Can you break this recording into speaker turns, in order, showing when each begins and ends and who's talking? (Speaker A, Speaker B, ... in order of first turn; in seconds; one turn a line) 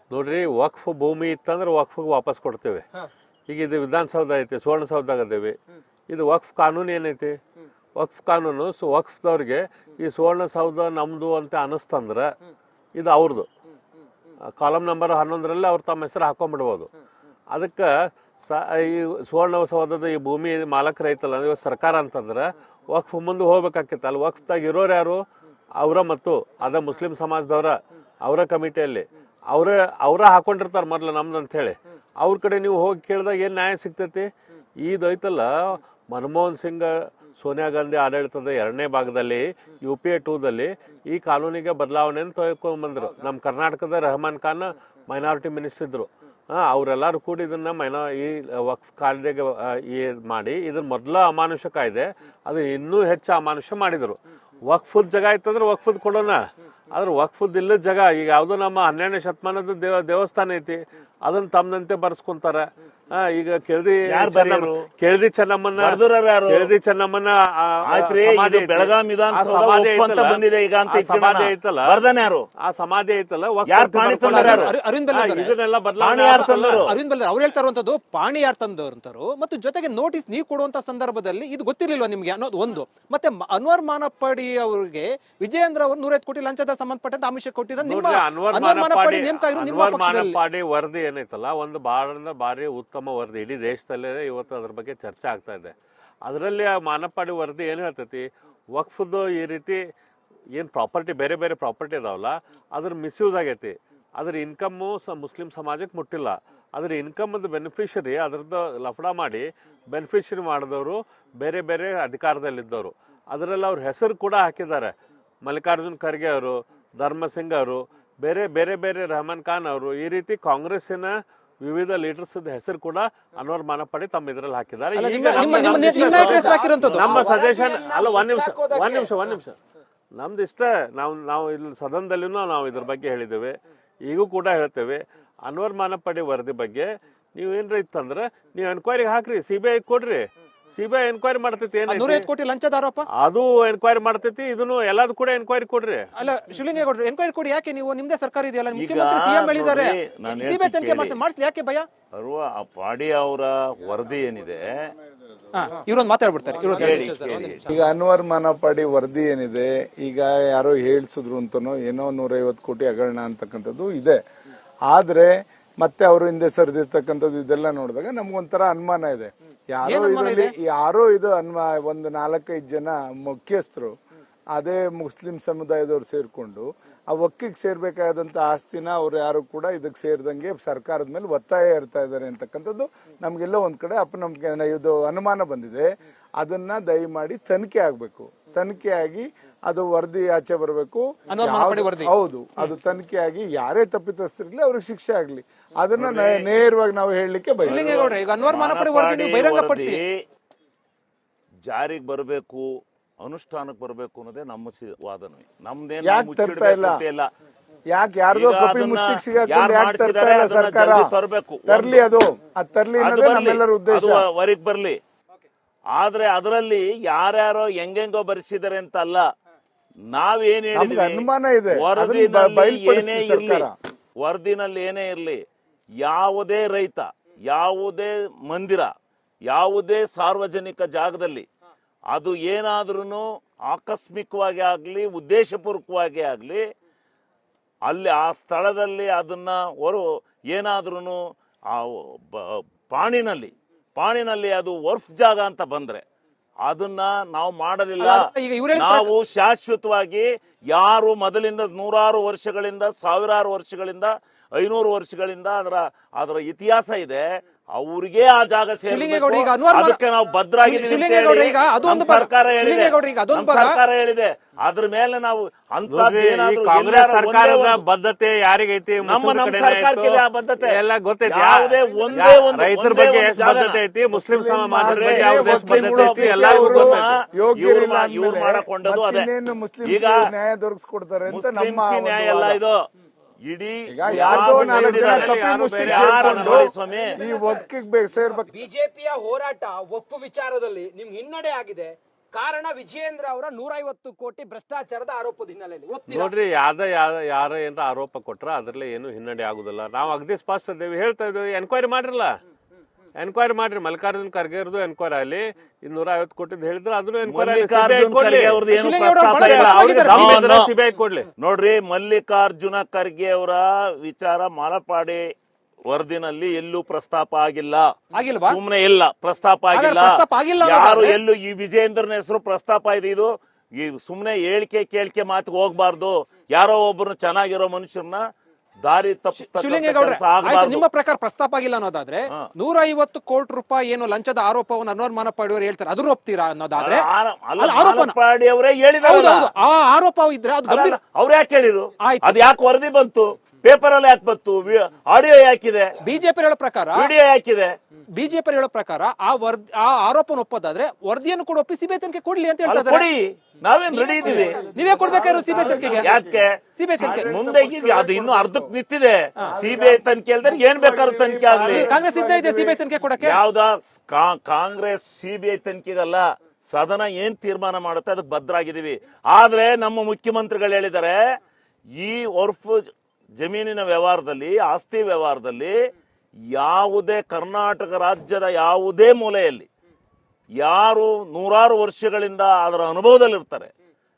Speaker A: 0.1-2.8
Speaker A: 3.5-5.5
Speaker A: 6.1-7.4
Speaker A: 8.0-12.3
Speaker A: 12.9-13.5
Speaker A: 14.5-16.9
Speaker A: 17.5-17.9
Speaker A: 18.4-25.2
Speaker A: 25.8-34.3
Speaker A: 34.8-56.4
Speaker A: 56.9-72.0
Speaker B: 64.1-64.8
Speaker B: 65.8-66.7
Speaker B: 67.8-72.5
Speaker A: 72.6-76.9
Speaker B: 73.7-74.7
Speaker C: 74.2-75.5
Speaker B: 76.0-76.9
Speaker C: 76.3-90.4
Speaker A: 87.8-99.8
Speaker A: 100.5-129.6
Speaker C: 124.9-127.1
Speaker B: 125.4-126.5
Speaker D: 126.0-129.1
Speaker A: 130.1-142.2
Speaker C: 141.9-143.1
Speaker A: 143.1-146.1
Speaker C: 146.2-151.9
Speaker B: 148.7-151.2
Speaker B: 152.1-154.9
Speaker C: 155.5-157.1
Speaker D: 156.7-157.6
Speaker B: 156.7-157.7
Speaker E: 157.7-164.2
Speaker E: 164.9-173.9
Speaker C: 169.8-170.5
Speaker E: 174.5-185.9
Speaker E: 186.4-198.1
Speaker C: 191.3-192.1
Speaker B: 196.0-196.4
Speaker B: 197.6-200.1
Speaker C: 197.6-200.0
Speaker B: 201.6-202.7
Speaker B: 203.2-207.3
Speaker E: 206.0-207.0
Speaker E: 207.9-211.1
Speaker B: 208.3-212.0
Speaker E: 211.7-214.2
Speaker B: 213.0-215.0
Speaker B: 215.9-219.2
Speaker B: 220.1-223.7
Speaker E: 220.7-223.7
Speaker B: 224.2-225.4
Speaker B: 226.0-228.9
Speaker B: 229.5-231.4
Speaker B: 232.1-236.6
Speaker B: 237.8-241.2
Speaker B: 241.7-246.0
Speaker B: 246.6-267.8
Speaker C: 248.0-249.1
Speaker C: 258.8-260.0
Speaker C: 260.6-263.8
Speaker A: 265.9-277.2
Speaker B: 269.0-273.8
Speaker E: 274.1-282.6
Speaker B: 274.8-279.3
Speaker B: 279.8-280.2
Speaker B: 281.2-282.8
Speaker B: 283.4-287.2
Speaker E: 283.9-288.5
Speaker A: 284.1-286.7
Speaker D: 286.9-287.7
Speaker D: 288.5-296.3
Speaker A: 296.1-302.3
Speaker A: 303.2-311.3
Speaker B: 307.2-310.7
Speaker C: 308.7-310.4
Speaker B: 311.4-315.2
Speaker B: 315.9-317.8
Speaker C: 318.1-318.6
Speaker B: 318.5-328.2
Speaker C: 319.7-321.2
Speaker B: 328.8-330.8
Speaker C: 329.4-338.2
Speaker B: 336.8-339.5
Speaker C: 339.0-341.0
Speaker B: 340.6-345.9
Speaker C: 342.0-342.4
Speaker C: 346.0-347.1
Speaker B: 346.9-347.7
Speaker C: 348.1-353.1
Speaker B: 352.6-354.7
Speaker C: 353.9-356.1
Speaker E: 354.0-356.4
Speaker B: 355.5-361.9
Speaker C: 356.7-357.3
Speaker E: 357.0-358.7
Speaker E: 359.5-362.8
Speaker C: 361.7-363.4
Speaker B: 363.2-371.2
Speaker B: 372.0-372.9
Speaker B: 373.4-375.8
Speaker B: 376.5-379.7
Speaker B: 380.6-383.7